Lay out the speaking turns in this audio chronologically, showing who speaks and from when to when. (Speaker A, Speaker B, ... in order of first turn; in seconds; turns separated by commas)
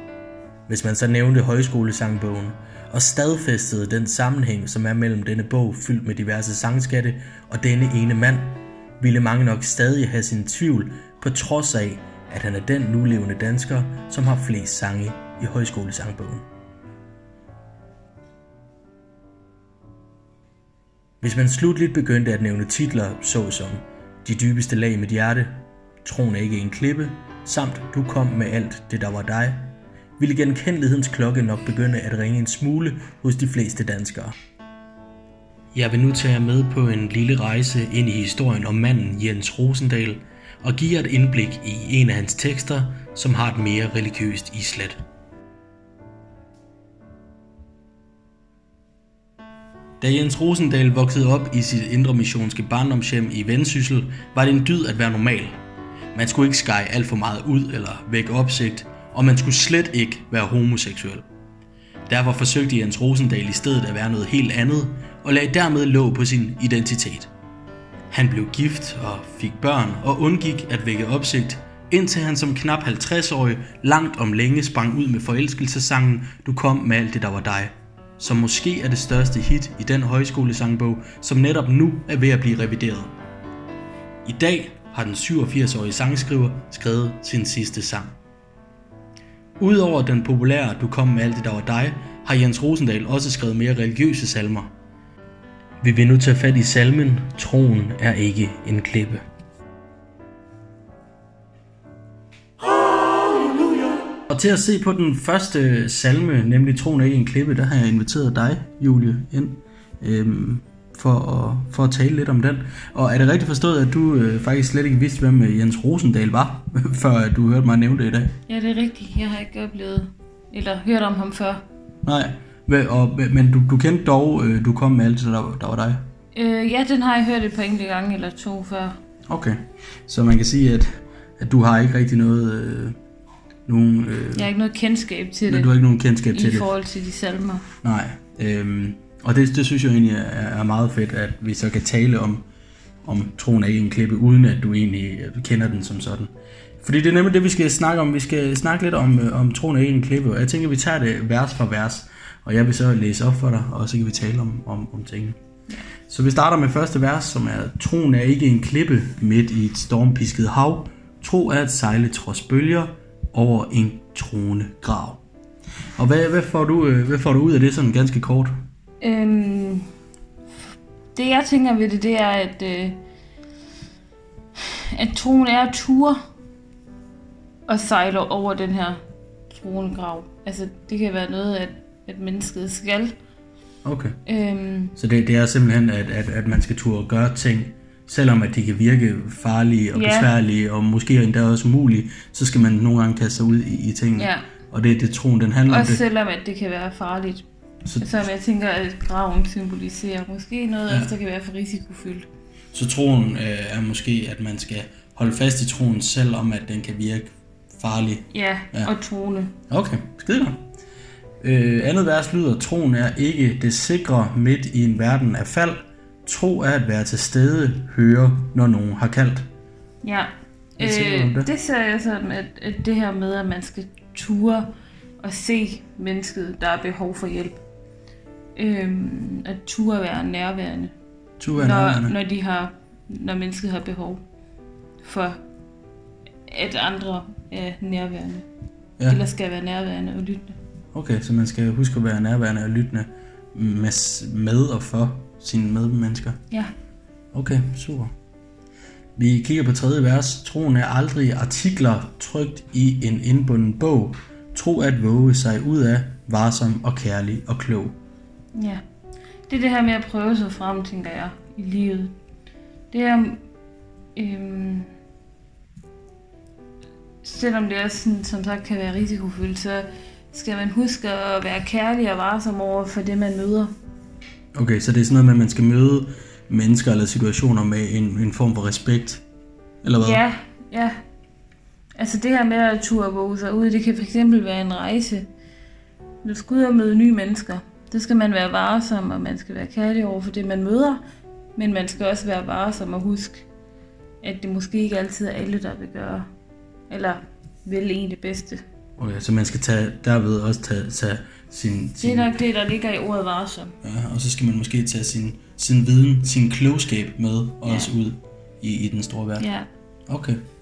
Speaker A: 0.7-16.5, Speaker A: 21.2-34.4, Speaker A: 35.7-45.0, Speaker A: 50.0-55.6, Speaker A: 56.1-61.3, Speaker A: 62.1-67.3, Speaker A: 68.1-83.1, Speaker A: 84.2-88.2, Speaker A: 89.6-94.7, Speaker A: 95.8-99.2, Speaker A: 104.3-118.4, Speaker B: 118.5-121.6, Speaker A: 122.0-126.0, Speaker B: 126.3-129.0, Speaker A: 129.3-133.0, Speaker A: 133.7-134.5, Speaker B: 134.3-135.7, Speaker A: 135.5-136.7, Speaker B: 136.3-137.7, Speaker A: 137.8-142.5, Speaker A: 143.0-146.3, Speaker A: 146.8-155.4, Speaker A: 156.1-165.2, Speaker A: 166.0-168.6, Speaker B: 169.0-169.9, Speaker B: 171.1-173.0, Speaker B: 174.6-176.2, Speaker B: 177.7-183.2, Speaker A: 183.8-184.2, Speaker B: 184.2-184.9, Speaker A: 185.0-196.0, Speaker B: 189.9-190.3, Speaker B: 194.2-194.5, Speaker B: 195.7-197.4, Speaker A: 197.8-198.1, Speaker B: 198.0-202.3, Speaker A: 202.7-208.9, Speaker B: 208.3-209.6, Speaker A: 209.7-210.6, Speaker A: 211.4-219.5, Speaker B: 220.0-227.6, Speaker A: 220.8-221.5, Speaker B: 228.6-230.9, Speaker A: 231.4-232.2, Speaker B: 231.5-234.2, Speaker B: 235.0-235.4, Speaker B: 236.5-238.5, Speaker B: 239.1-240.6, Speaker A: 240.9-246.4, Speaker A: 247.3-248.1, Speaker A: 249.2-258.0, Speaker B: 258.6-258.8, Speaker B: 259.5-262.1, Speaker B: 262.9-263.4, Speaker B: 264.2-264.9, Speaker B: 267.2-273.7, Speaker A: 274.6-279.2, Speaker A: 279.8-280.2, Speaker B: 280.0-281.0, Speaker B: 282.0-285.3, Speaker B: 286.2-291.0, Speaker B: 291.6-293.5, Speaker B: 294.2-296.3, Speaker B: 296.9-298.6, Speaker A: 299.0-302.3, Speaker B: 302.0-303.8, Speaker A: 303.8-309.5, Speaker B: 307.6-307.9, Speaker B: 309.4-309.7, Speaker A: 310.1-310.4